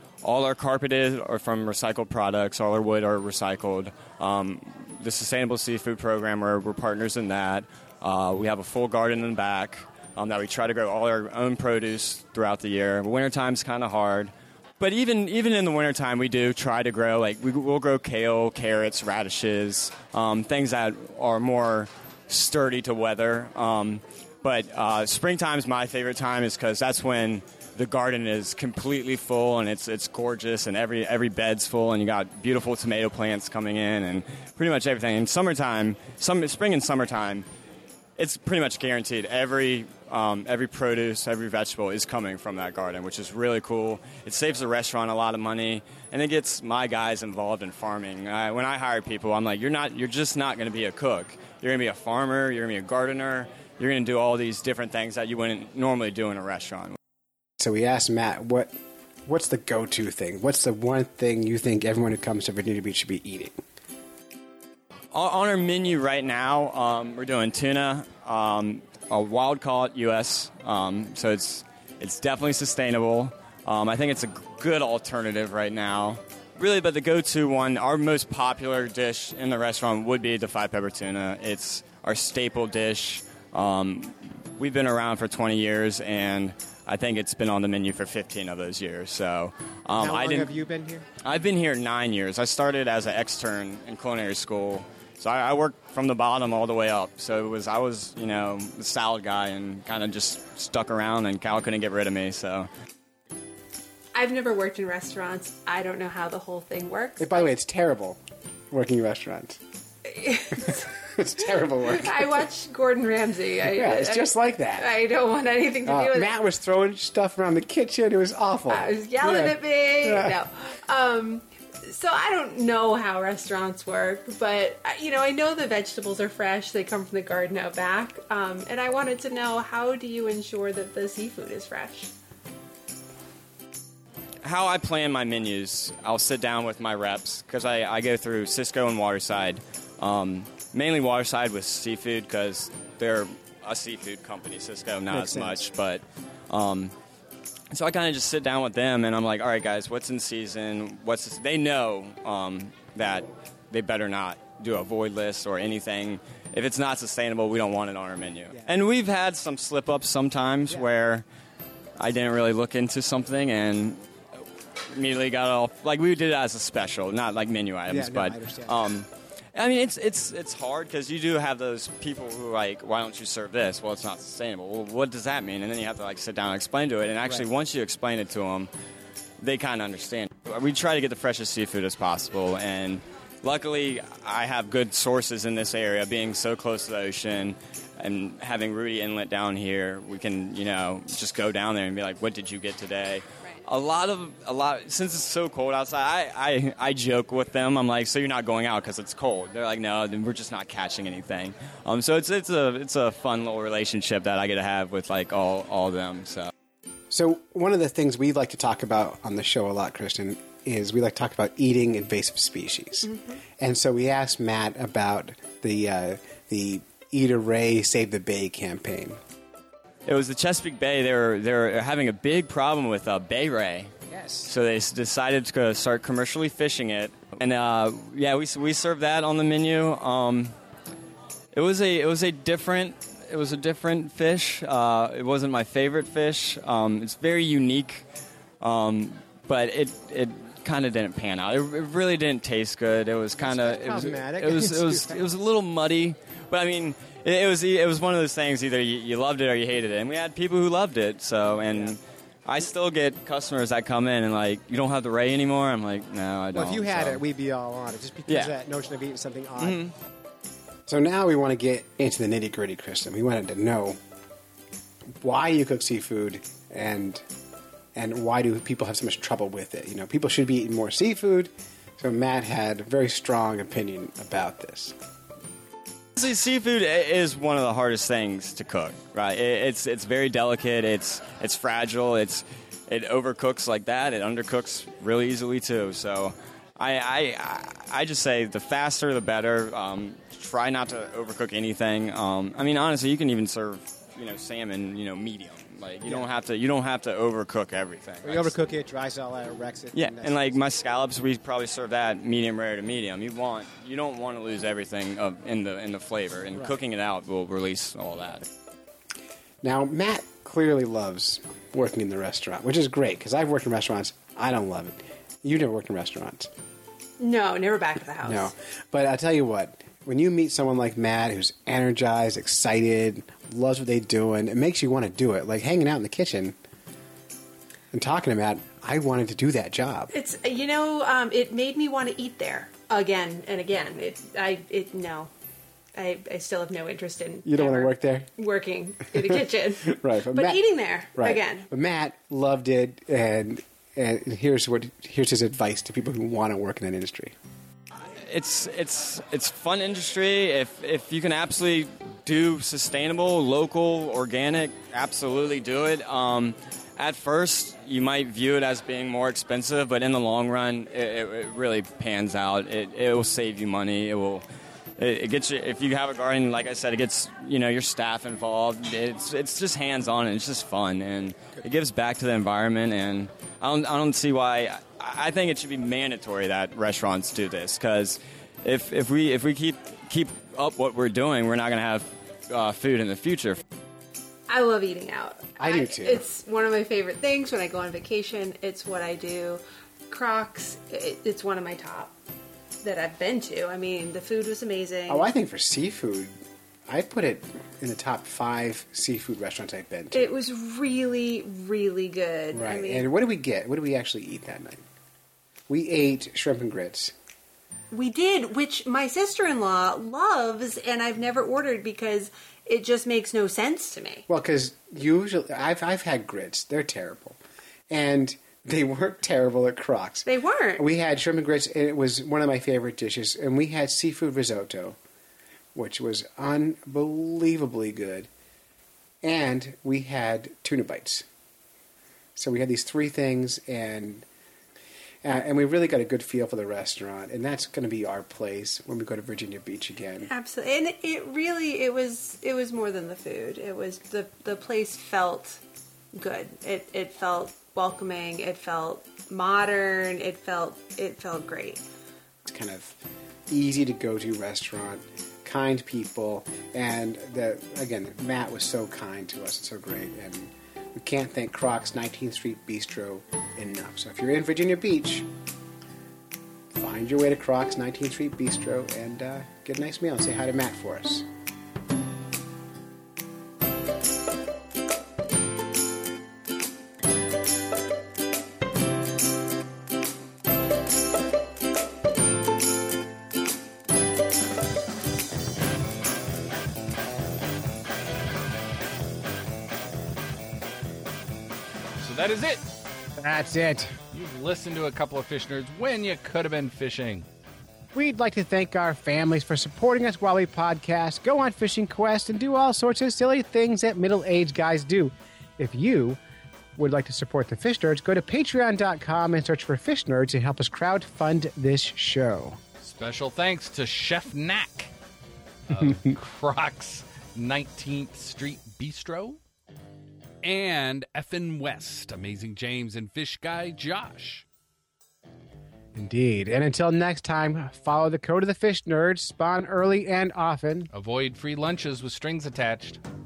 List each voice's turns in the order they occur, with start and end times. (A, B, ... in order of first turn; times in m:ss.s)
0:00.2-0:37.4 A
0:38.2-0:57.0 A
0:57.6-0:58.8 B
0:59.3-1:03.6 B
1:05.1-1:30.5 A
1:30.0-1:31.0 B
1:31.2-1:42.7 A
1:44.1-1:47.5 C
1:47.2-1:48.2 B
1:48.7-1:49.6 B
1:50.1-1:50.8 C
1:50.7-1:52.4 B
1:51.9-1:56.3 C
1:53.6-1:54.9 B
1:55.8-2:00.3 B
1:58.7-2:12.1 C
2:14.4-2:26.9 A
2:25.1-2:25.7 B
2:27.7-2:41.2 A
2:42.0-2:44.0 A
2:44.9-2:58.7 A
2:47.9-2:48.8 B
2:59.4-3:26.5 A
3:27.1-3:39.2 B
3:40.0-3:43.9 A
3:44.1-3:44.5 B
3:44.4-3:50.5 A
3:51.5-3:58.0 A
3:58.6-4:17.2 A
4:03.4-4:05.2 B
4:16.5-4:19.8 B
4:18.3-4:18.6 A
4:19.6-4:19.9 A
4:20.9-4:24.0 B
4:25.2-4:27.2 B
4:27.9-4:34.9 B
4:36.2-4:58.5 A
4:58.2-5:00.6 B
4:59.9-5:08.4 A
5:09.6-5:16.5 B
5:17.2-5:18.5 C
5:18.2-5:26.5 B
5:27.9-5:30.1 B
5:30.1-5:35.3 C
5:35.9-5:41.7 C
5:37.4-5:38.3 B
5:39.1-5:47.3 B
5:48.2-6:04.4 A
6:05.0-6:23.6 A
6:24.5-6:32.1 C
6:25.6-6:26.2 B
6:32.8-6:35.3 C
6:35.1-6:36.3 B
6:36.9-6:40.3 B
6:40.1-6:43.1 C
6:42.5-6:44.8 B
6:45.7-6:47.1 B
6:47.9-6:54.2 C
6:54.3-6:57.4 B
6:57.9-7:05.0 B
7:00.2-7:00.9 C
7:05.7-7:08.3 B
7:09.2-7:11.2 B
7:12.4-7:14.2 B
7:15.2-7:20.3 B
7:20.3-7:25.6 C
7:26.1-7:31.8 C
7:32.4-7:33.0 B
7:33.5-7:45.2 B
7:46.7-7:51.2 B
8:12.0-8:12.7 D
8:13.2-8:14.0 B
8:14.1-8:17.2 D
8:17.9-8:26.2 B
8:26.8-8:32.6 B
8:32.8-8:34.9 D
8:35.7-8:39.4 D
8:35.7-8:36.1 B
8:40.4-8:44.4 D
8:45.9-8:50.9 B
8:50.9-8:53.0 D